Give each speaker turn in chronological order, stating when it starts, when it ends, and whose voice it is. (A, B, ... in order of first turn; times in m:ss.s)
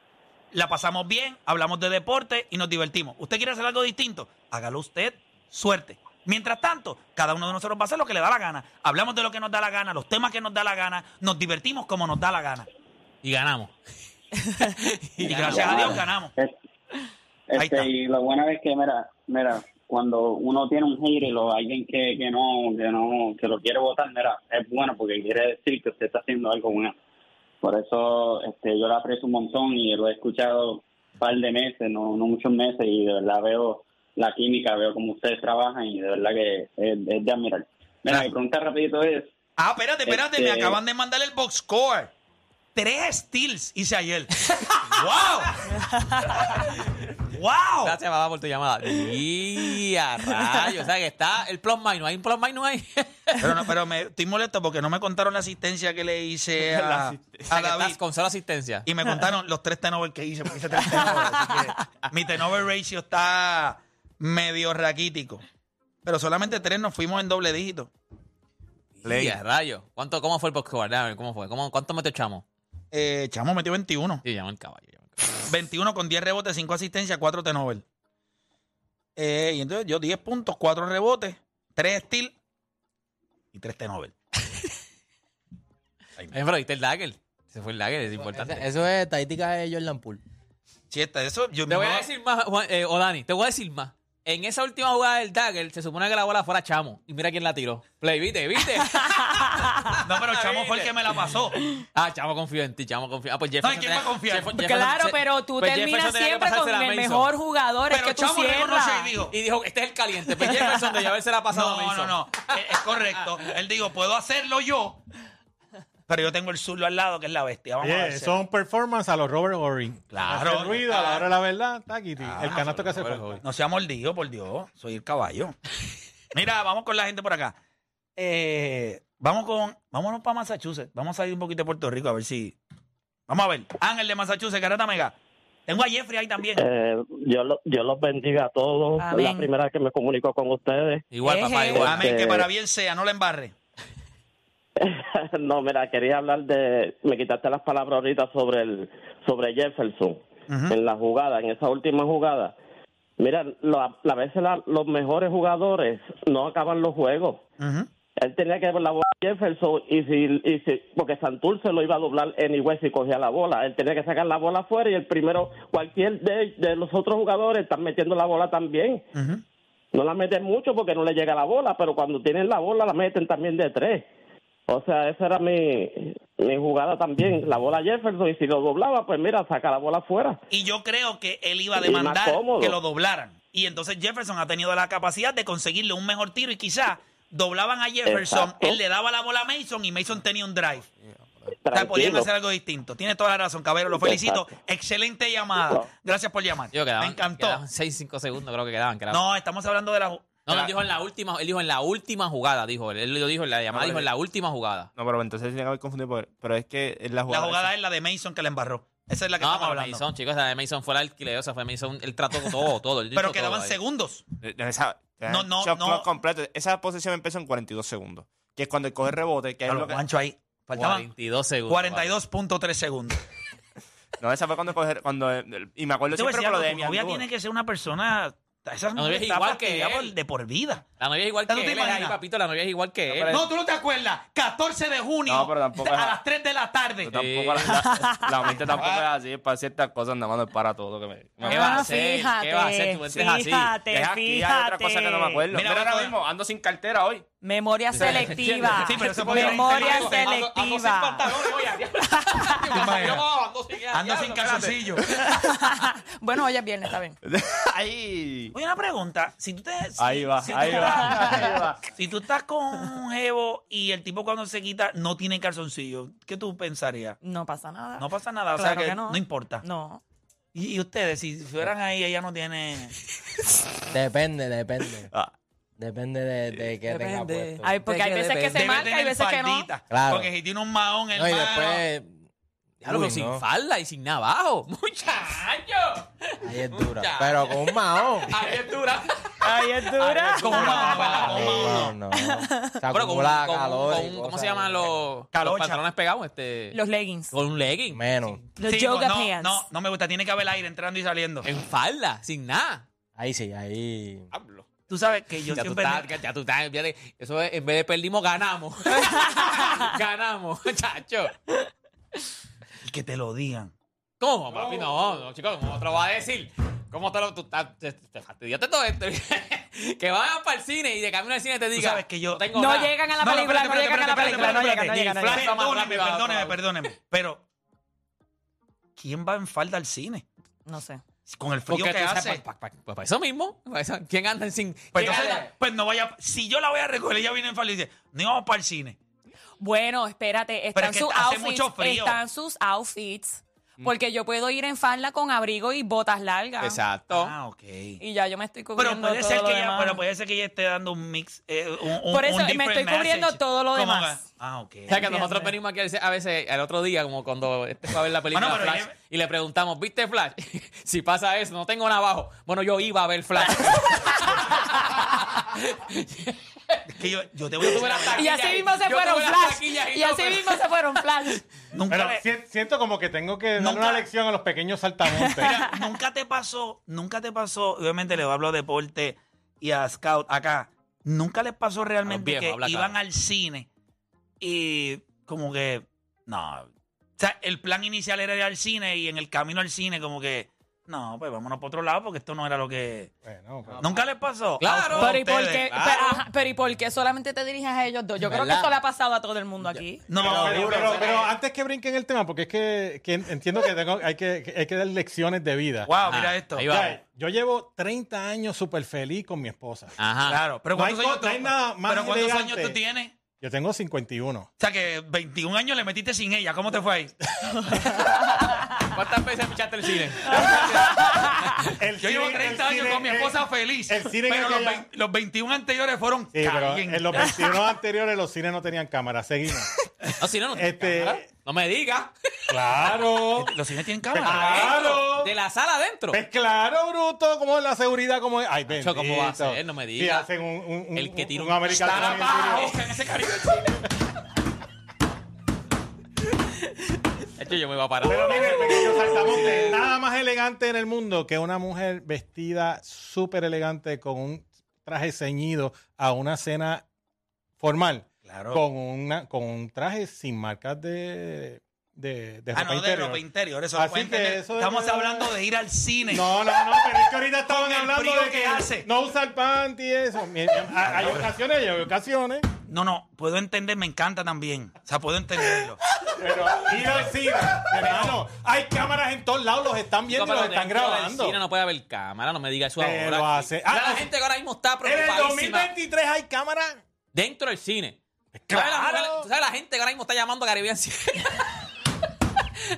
0:00.5-0:12.7 A
0:13.2-0:13.8 B
0:14.6-0:16.0 B
0:15.2-0:16.3 A
0:15.4-0:16.6 C
0:17.5-0:27.0 C
0:17.6-0:17.9 A
0:27.6-0:39.3 C
0:39.6-0:42.1 A
0:40.0-0:40.8 C
0:42.7-0:45.6 A
0:45.8-0:46.4 D
0:47.3-0:48.0 A
0:47.8-0:53.5 B
0:50.4-0:50.7 D
0:53.4-0:58.0 A
0:56.6-0:57.5 E
0:57.5-0:58.9 B
0:58.8-1:05.4 A
1:01.0-1:01.5 D
1:06.0-1:07.9 A
1:09.0-1:12.4 B
1:09.0-1:09.4 E
1:12.9-1:14.2 A
1:14.2-1:15.4 B
1:15.4-1:17.8 A
1:19.2-1:22.3 A
1:23.5-1:24.1 A
1:26.3-1:28.6 B
1:28.2-1:30.2 F
1:30.9-1:32.1 A
1:31.7-1:39.4 B
1:38.7-1:40.0 D
1:40.0-1:41.6 A
1:40.2-1:41.4 B
1:41.9-1:47.3 B
1:43.6-1:44.6 A
1:44.5-1:49.1 D
1:47.9-1:49.3 A
1:49.3-1:53.5 B
1:50.3-1:51.0 D
1:51.5-1:55.0 A
1:56.1-1:58.4 A
1:57.8-2:03.4 G
2:00.1-2:01.3 A
2:02.2-2:02.8 A
2:02.7-2:03.4 B
2:03.4-2:05.6 A
2:06.3-2:07.6 A
2:08.2-2:12.5 A
2:13.3-2:15.1 A
2:15.7-2:16.6 A
2:16.6-2:21.0 H
2:19.0-2:19.5 D
2:21.1-2:22.1 B
2:21.2-2:22.0 D
2:21.7-2:22.4 H
2:21.8-2:23.5 A
2:24.8-2:32.5 H
2:30.5-2:30.7 A
2:33.2-2:37.4 H
2:37.6-2:37.9 A
2:38.2-2:49.0 H
2:49.1-2:49.4 A
2:49.9-2:54.1 H
2:54.7-3:00.4 H
3:00.5-3:10.9 A
3:01.8-3:02.8 H
3:08.0-3:08.8 H
3:11.0-3:11.5 E
3:11.6-3:12.3 H
3:11.7-3:17.6 A
3:13.9-3:14.5 H
3:16.7-3:19.2 B
3:19.1-3:20.7 A
3:20.4-3:24.9 B
3:23.7-3:24.1 E
3:25.0-3:27.7 E
3:27.3-3:30.0 A
3:29.4-3:33.8 B
3:33.1-3:34.2 A
3:34.4-3:40.0 E
3:35.3-3:36.1 A
3:39.7-3:41.1 A
3:40.7-3:42.2 B
3:41.7-3:43.2 A
3:44.2-3:47.2 E
3:46.1-3:50.8 A
3:49.0-3:50.1 B
3:51.0-3:53.3 B
3:51.5-3:52.2 A
3:53.1-3:53.4 E
3:53.2-3:57.2 A
3:55.3-3:56.1 E
3:57.0-4:01.9 E
3:57.1-3:57.8 B
3:57.6-3:58.4 D
3:58.7-3:59.1 A
4:01.4-4:05.4 D
4:01.5-4:03.7 B
4:03.8-4:07.2 E
4:05.5-4:06.2 A
4:07.4-4:13.2 D
4:07.9-4:15.2 B
4:08.8-4:10.3 A
4:12.7-4:13.3 A
4:13.9-4:15.1 A
4:15.0-4:17.2 D
4:17.2-4:18.5 E
4:18.5-4:27.2 A
4:20.0-4:21.8 E
4:20.5-4:21.6 D
4:27.2-4:30.0 D
4:28.0-4:29.6 A
4:30.5-4:32.9 A
4:33.9-4:35.1 F
4:35.8-4:37.7 F
4:36.9-4:38.6 B
4:37.0-4:39.7 D
4:38.5-4:41.8 A
4:39.9-4:40.3 F
4:41.1-4:42.1 F
4:42.8-4:43.4 F
4:42.8-4:46.1 B
4:46.4-4:48.3 F
4:46.7-4:49.3 B
4:49.4-4:51.4 D
4:50.2-4:50.8 G
4:50.4-4:51.9 A
4:50.6-4:51.5 B
4:51.2-4:54.9 F
4:52.1-4:52.8 D
4:52.9-4:56.7 B
4:55.3-4:55.8 A
4:56.7-4:57.3 D
4:57.3-4:58.0 B
4:57.9-4:58.4 F
4:58.6-4:59.6 D
4:58.6-5:01.5 A
5:01.4-5:02.8 B
5:03.2-5:04.3 F
5:04.3-5:04.7 B
5:04.9-5:06.2 A
5:05.5-5:11.3 B
5:09.1-5:09.8 D
5:12.8-5:13.7 A
5:14.2-5:22.9 B
5:21.8-5:27.4 A
5:22.5-5:25.5 D
5:24.2-5:24.6 B
5:25.3-5:26.6 B
5:29.0-5:30.2 A
5:30.6-5:31.0 D
5:31.3-5:32.4 A
5:31.6-5:35.4 B
5:34.9-5:39.0 A
5:34.9-5:35.5 F
5:39.6-5:46.8 D
5:40.7-5:42.2 A
5:46.6-5:47.3 B
5:47.1-5:48.0 A
5:48.0-5:50.0 D
5:48.8-5:55.3 A
5:52.0-5:54.2 D
5:54.9-6:04.6 B
5:55.0-5:55.5 D
5:58.3-5:59.0 A
6:03.4-6:05.0 D
6:05.5-6:06.8 B
6:06.9-6:08.6 A
6:07.6-6:10.6 B
6:07.7-6:11.4 D
6:11.7-6:12.2 A
6:11.9-6:15.5 G
6:13.6-6:14.0 A
6:15.1-6:15.8 D
6:15.4-6:23.7 A
6:22.0-6:23.0 B
6:24.4-6:33.1 A
6:33.2-6:33.8 G
6:33.8-6:35.7 A
6:34.6-6:35.1 B
6:34.9-6:40.1 D
6:35.7-6:36.2 B
6:38.2-6:38.7 F
6:40.1-6:41.3 A
6:40.1-6:41.3 F
6:40.2-6:45.9 G
6:45.9-6:46.6 A
6:46.0-6:47.0 B
6:46.6-6:49.9 G
6:50.0-6:50.6 B
6:50.2-6:53.1 A
6:50.7-6:52.8 G
6:53.4-6:54.5 G
6:54.6-6:57.1 A
6:58.9-7:01.7 B
7:00.2-7:01.4 D
7:00.3-7:00.6 G
7:01.8-7:04.8 G
7:02.0-7:07.4 A
7:06.3-7:11.3 G
7:07.1-7:07.4 D
7:10.2-7:13.0 B
7:12.5-7:13.5 G
7:13.4-7:15.0 A
7:14.1-7:15.3 G
7:14.2-7:16.2 B
7:16.1-7:22.8 G
7:18.7-7:20.3 B
7:20.9-7:23.6 B
7:21.7-7:23.7 A
7:27.4-7:29.9 B
7:28.0-7:36.8 G
7:37.6-7:43.2 G
7:38.2-7:38.6 A
7:42.5-7:46.9 A
7:43.7-7:45.3 G
7:46.1-7:52.5 G
7:47.5-7:48.8 A
7:50.9-7:51.3 A
7:52.7-7:55.8 A
7:56.0-8:01.4 G
7:56.6-7:57.0 B
7:57.6-7:58.2 B
8:00.1-8:05.7 B
8:02.8-8:04.1 G
8:04.8-8:06.8 G
8:07.1-8:08.0 B
8:08.3-8:09.3 G
8:08.5-8:11.6 B